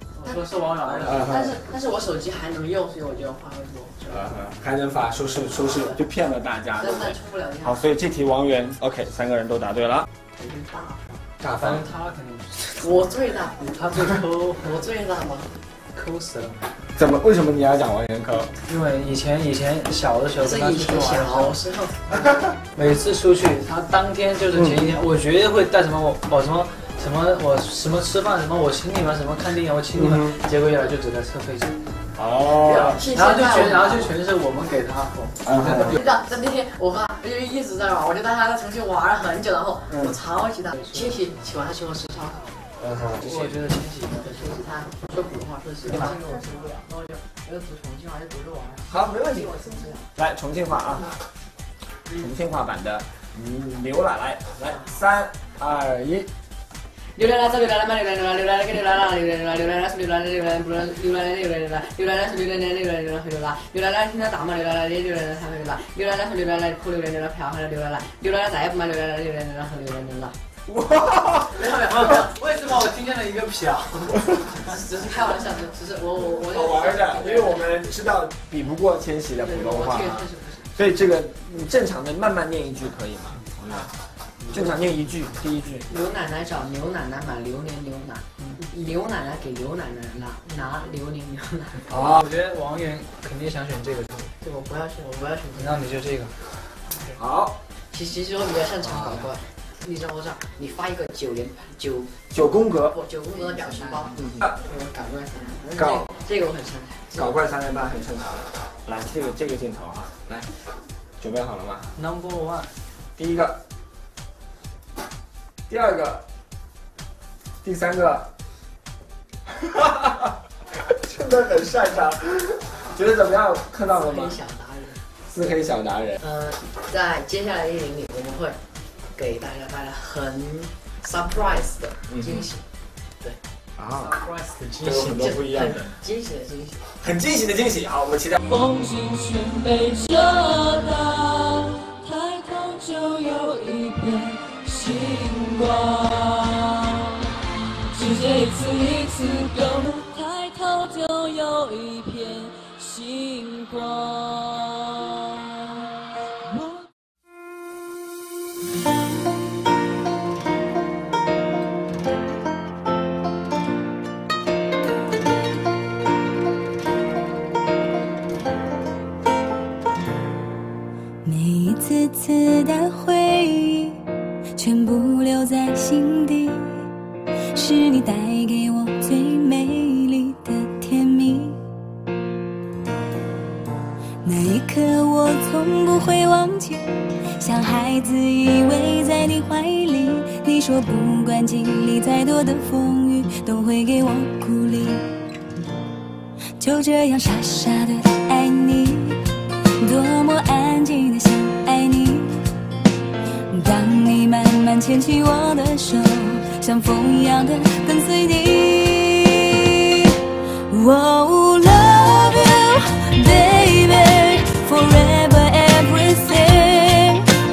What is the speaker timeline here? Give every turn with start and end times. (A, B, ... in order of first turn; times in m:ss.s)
0:00.2-0:04.3 A
0:00.2-0:01.3 B
0:01.0-0:01.6 C
0:04.1-0:10.1 C
0:06.8-0:07.9 A
0:10.4-0:11.2 A
0:11.4-0:11.8 C
0:11.6-0:12.9 B
0:12.8-0:13.6 A
0:13.6-0:14.8 B
0:14.6-0:15.5 A
0:15.9-0:16.6 B
0:16.9-0:18.5 C
0:18.6-0:21.6 B
0:20.4-0:22.5 A
0:22.7-0:31.8 B
0:30.0-0:30.3 C
0:32.2-0:33.0 C
0:32.5-0:34.1 A
0:32.7-0:36.0 B
0:35.4-0:36.0 C
0:35.8-0:42.6 A
0:40.8-0:41.2 B
0:42.8-0:43.4 C
0:43.2-0:44.4 B
0:44.2-0:50.0 A
0:45.9-0:46.2 B
0:48.9-0:51.2 C
0:52.1-0:56.3 C
0:57.0-1:10.4 A
1:10.7-1:11.5 C
1:11.4-1:12.3 A
1:11.9-1:14.3 B
1:14.5-1:17.7 A
1:16.4-1:23.9 C
1:19.4-1:20.7 A
1:24.5-1:25.9 C
1:25.9-1:32.0 A
1:28.4-1:28.6 B
1:31.9-1:32.2 C
1:32.0-1:34.3 B
1:34.4-1:35.8 A
1:35.5-1:36.3 B
1:37.2-1:37.6 C
1:37.9-1:42.1 A
1:39.0-1:39.3 C
1:42.3-1:43.0 C
1:42.9-1:47.4 A
1:44.2-1:44.5 C
1:45.8-1:46.1 C
1:47.1-1:50.5 C
1:51.2-1:51.9 C
1:51.9-1:52.7 B
1:53.2-1:53.6 C
1:55.7-1:56.2 C
1:57.6-1:58.3 C
1:59.5-2:04.4 C
2:03.9-2:05.0 A
2:05.3-2:06.2 C
2:06.2-2:08.6 A
2:09.1-2:12.6 A
2:12.1-2:12.5 C
2:13.8-2:14.2 C
2:14.2-2:16.8 A
2:14.8-2:15.9 C
2:17.0-2:18.4 C
2:22.0-2:26.0 D
2:28.0-2:34.6 D
2:51.2-2:54.0 D
2:54.6-2:56.8 D
2:57.5-3:01.6 D
3:04.2-3:06.8 D
3:07.4-3:15.0 D
3:16.6-3:19.2 D
3:19.8-3:22.4 D
3:23.5-3:37.3 D